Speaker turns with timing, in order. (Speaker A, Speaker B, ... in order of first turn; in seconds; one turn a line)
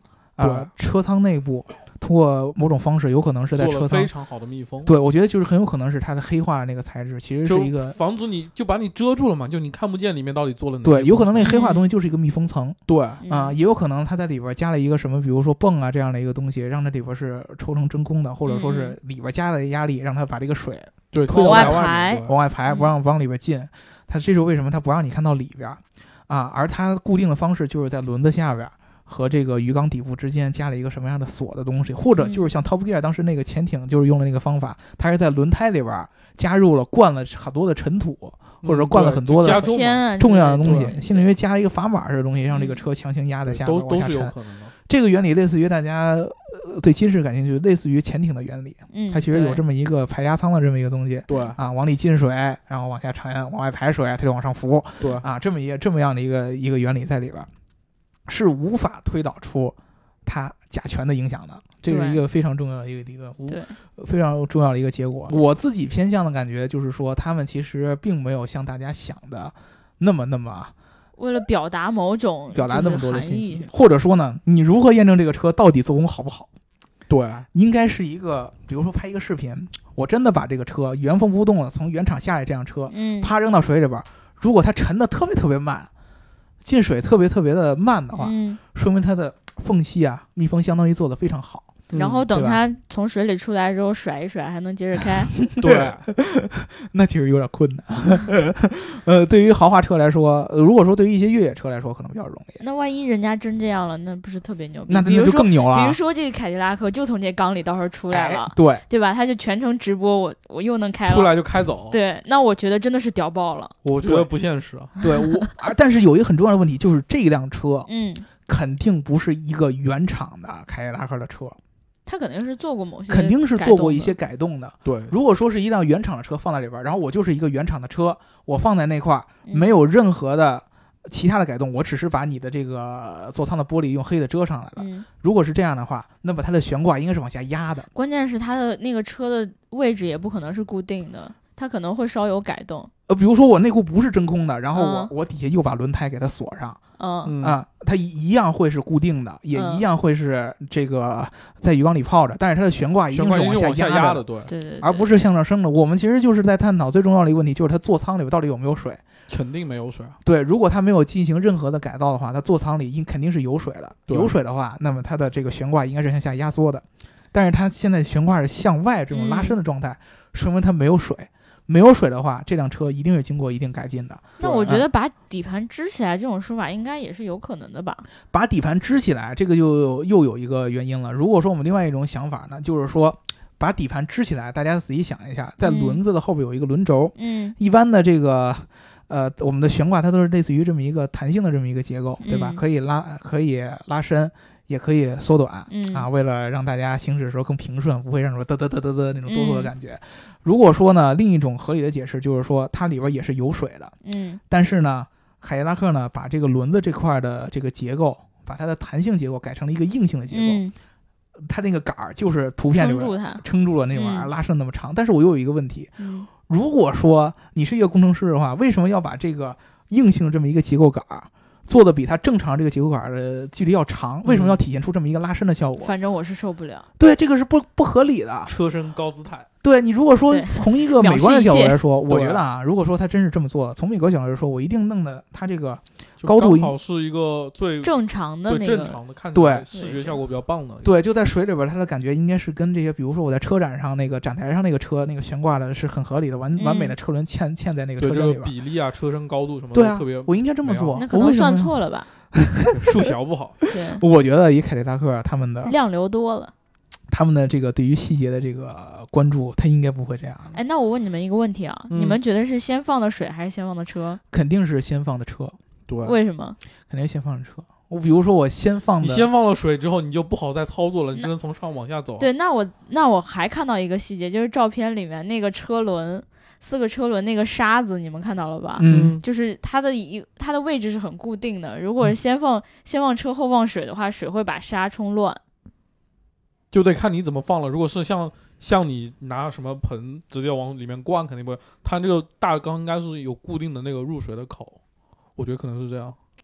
Speaker A: 0.4-4.1
Speaker B: 0.4-0.7
Speaker B: 3.5-4.9
Speaker A: 4.8-8.0
Speaker B: 7.5-11.6
Speaker A: 10.8-57.5
Speaker C: 11.4-11.9
Speaker B: 12.9-13.2
Speaker C: 13.2-13.6
Speaker C: 18.4-19.0
Speaker B: 21.1-22.3
Speaker C: 21.3-22.9
Speaker C: 32.2-32.5
Speaker B: 38.6-40.0
Speaker C: 39.5-41.3
Speaker B: 40.6-40.9
Speaker C: 42.5-42.9
Speaker B: 43.5-44.7
Speaker C: 48.9-49.6
Speaker B: 51.3-51.6
Speaker B: 55.0-55.3
Speaker A: 58.3-70.7
Speaker C: 61.9-62.2
Speaker C: 63.5-63.8
Speaker C: 71.2-73.7
Speaker A: 72.5-76.5
Speaker B: 77.1-77.5
Speaker A: 77.5-85.9
Speaker C: 82.9-83.3
Speaker A: 86.6-92.6
Speaker C: 88.1-88.6
Speaker B: 91.9-92.2
Speaker C: 92.0-95.3
Speaker A: 95.4-102.6
Speaker B: 95.6-96.1
Speaker C: 102.6-111.4
Speaker A: 104.9-106.0
Speaker A: 108.1-108.8
Speaker B: 111.1-112.0
Speaker C: 111.9-113.8
Speaker B: 113.8-115.0
Speaker A: 114.0-114.3
Speaker A: 115.0-117.9
Speaker C: 115.0-115.5
Speaker C: 117.9-118.3
Speaker A: 118.5-121.6
Speaker C: 122.1-124.1
Speaker A: 123.1-137.9
Speaker B: 124.8-125.1
Speaker C: 129.5-129.7
Speaker C: 134.8-135.1
Speaker C: 137.9-142.9
Speaker A: 143.1-146.8
Speaker C: 144.7-145.1
Speaker C: 147.0-147.3
Speaker B: 147.2-147.6
Speaker A: 147.4-154.3
Speaker C: 149.5-149.8
Speaker B: 153.1-154.5
Speaker C: 154.5-155.1
Speaker A: 154.8-159.0
Speaker B: 159.3-160.2
Speaker A: 160.2-174.9
Speaker B: 164.1-164.3
Speaker C: 169.1-169.6
Speaker C: 174.4-178.1
Speaker B: 174.4-174.7
Speaker A: 178.3-203.9
Speaker C: 185.6-186.0
Speaker C: 187.2-187.6
Speaker C: 192.2-192.6
Speaker C: 195.7-196.1
Speaker C: 199.3-199.7
Speaker C: 204.0-204.4
Speaker A: 204.5-210.6
Speaker C: 210.3-210.7
Speaker A: 211.4-215.9
Speaker C: 212.7-214.3
Speaker C: 216.0-216.3
Speaker A: 216.4-225.9
Speaker B: 224.2-224.6
Speaker C: 225.8-226.9
Speaker A: 227.0-228.5
Speaker B: 228.5-229.5
Speaker A: 229.6-236.8
Speaker C: 230.3-231.8
Speaker B: 232.1-232.4
Speaker B: 236.2-237.9
Speaker C: 237.8-239.0
Speaker B: 238.5-240.9
Speaker A: 239.3-239.7
Speaker C: 239.7-240.1
Speaker A: 240.8-248.5
Speaker C: 246.6-246.9
Speaker B: 248.0-251.0
Speaker A: 249.7-251.8
Speaker C: 250.9-252.1
Speaker A: 252.3-253.1
Speaker B: 252.7-253.6
Speaker C: 253.7-254.0
Speaker A: 253.9-255.8
Speaker C: 255.6-256.5
Speaker A: 257.1-260.6
Speaker C: 260.5-264.2
Speaker B: 261.9-262.2
Speaker A: 264.3-265.6
Speaker B: 265.9-266.1
Speaker C: 266.0-266.6
Speaker A: 266.9-269.3
Speaker B: 269.0-272.3
Speaker C: 272.2-285.4
Speaker A: 278.8-279.2
Speaker B: 278.9-279.2
Speaker B: 286.7-294.8
Speaker B: 295.4-296.2